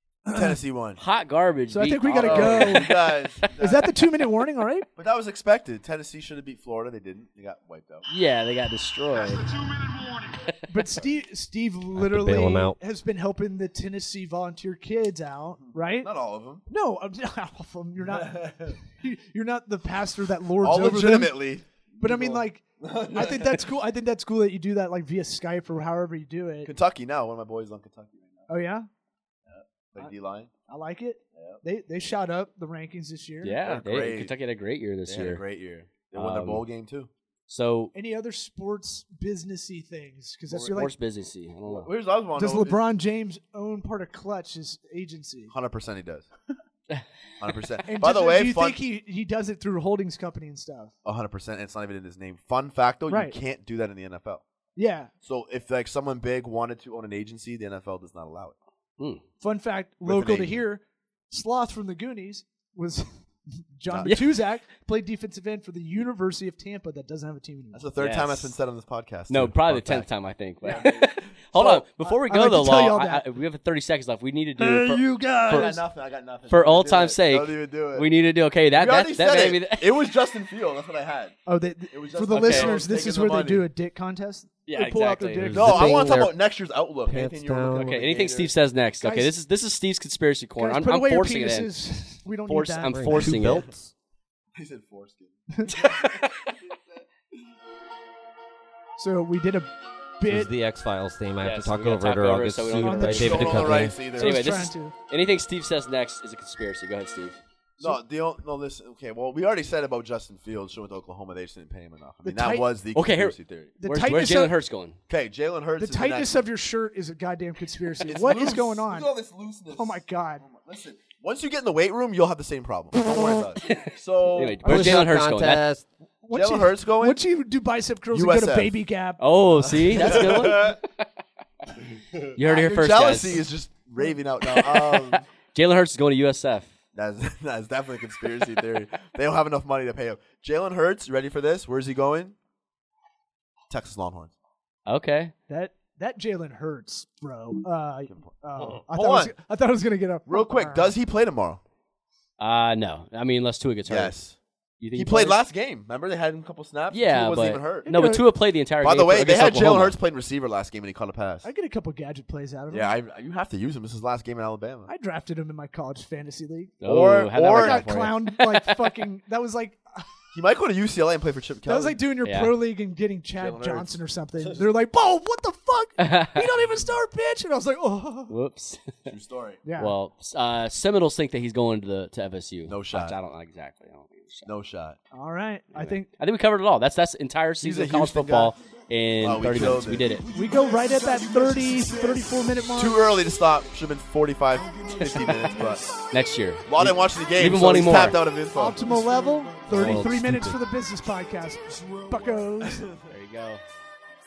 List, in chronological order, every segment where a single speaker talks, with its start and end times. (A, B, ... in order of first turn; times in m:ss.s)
0:00.2-0:00.6 A
0:00.3-0:01.0 B
0:01.0-0:03.5 C
0:01.7-0:04.9 A
0:02.1-0:03.9 B
0:05.0-0:08.1 B
0:08.1-0:10.5 C
0:10.7-0:16.1 A
0:11.9-0:12.8 D
0:16.0-0:16.6 B
0:16.7-0:21.4 A
0:18.1-0:18.8 B
0:20.6-0:23.7 B
0:22.0-0:26.7 A
0:26.6-0:28.5 B
0:28.5-0:28.9 A
0:29.5-0:30.5 B
0:30.7-0:33.6 A
0:33.4-0:35.4 C
0:33.6-0:34.3 B
0:35.1-0:37.1 B
0:36.1-0:36.6 C
0:37.5-0:37.9 C
0:37.9-0:40.9 A
0:40.7-0:41.9 C
0:41.7-0:42.8 B
0:42.4-0:45.5 A
0:45.5-0:46.2 B
0:47.4-0:48.8 B
0:47.9-0:50.9 A
0:51.0-0:54.4 B
0:53.1-0:53.4 A
0:54.8-0:55.1 A
0:55.2-0:58.6 B
0:59.4-1:03.2 A
1:00.0-1:00.6 B
1:03.8-1:07.9 A
1:03.9-1:04.1 B
1:04.0-1:04.4 C
1:07.7-1:10.1 B
1:08.0-1:08.5 C
1:09.3-1:15.8 C
1:10.6-1:10.9 A
1:10.7-1:11.8 B
1:12.0-1:13.2 A
1:14.6-1:15.8 A
1:15.5-1:18.1 B
1:16.5-1:20.2 C
1:18.7-1:21.4 B
1:21.5-1:26.2 A
1:21.9-1:23.7 B
1:22.3-1:22.8 C
1:24.7-1:25.5 C
1:25.4-1:26.3 D
1:25.5-1:28.5 B
1:27.1-1:27.9 D
1:27.7-1:31.8 C
1:29.0-1:29.3 A
1:30.6-1:33.2 A
1:32.4-1:33.7 C
1:32.9-1:33.9 D
1:34.6-1:37.0 B
1:35.7-1:36.3 C
1:39.0-1:40.5 A
1:40.2-1:44.0 D
1:41.4-1:47.4 C
1:42.8-1:44.9 A
1:43.1-1:44.5 B
1:47.8-1:53.8 B
1:52.2-1:52.6 A
1:52.9-1:55.0 C
1:53.8-1:54.5 A
1:55.1-1:56.4 B
1:55.8-1:59.1 A
1:58.0-2:05.0 B
1:59.7-2:00.4 A
2:03.6-2:05.6 C
2:04.6-2:05.1 A
2:04.6-2:05.8 D
2:06.2-2:09.2 A
2:06.3-2:07.2 B
2:08.1-2:08.8 B
2:09.2-2:11.1 C
2:09.6-2:10.8 B
2:10.0-2:10.3 A
2:12.3-2:13.4 C
2:12.4-2:15.2 B
2:12.4-2:12.7 A
2:14.4-2:16.7 C
2:16.9-2:22.3 B
2:23.7-2:24.3 B
2:24.9-2:25.3 C
2:25.5-2:30.9 A
2:28.9-2:29.3 B
2:30.3-2:31.6 B
2:32.4-2:34.1 C
2:33.9-2:34.4 B
2:34.8-2:35.4 C
2:34.9-2:38.1 B
2:36.9-2:40.0 C
2:37.8-2:38.2 A
2:38.8-2:41.5 B
2:41.4-2:42.9 A
2:42.7-2:44.9 B
2:44.9-2:46.8 A
2:46.8-2:48.8 C
2:46.8-2:48.1 B
2:47.4-2:50.1 A
2:50.3-2:52.0 B
2:51.6-2:58.3 A
2:52.2-2:52.5 C
2:53.4-2:54.6 B
2:56.0-2:56.4 C
2:58.3-2:59.1 C
2:59.1-2:59.6 B
2:59.6-2:59.9 A
2:59.8-3:04.5 C
3:02.7-3:03.2 B
3:04.4-3:05.0 B
3:05.1-3:06.1 A
3:05.7-3:10.3 C
3:07.6-3:08.5 B
3:09.2-3:10.2 B
3:10.2-3:13.0 A
3:12.7-3:15.9 B
3:14.9-3:15.5 C
3:16.1-3:18.3 C
3:16.7-3:18.8 B
3:18.5-3:22.8 A
3:19.7-3:20.6 D
3:19.7-3:20.1 C
3:22.8-3:23.1 B
3:23.1-3:23.6 C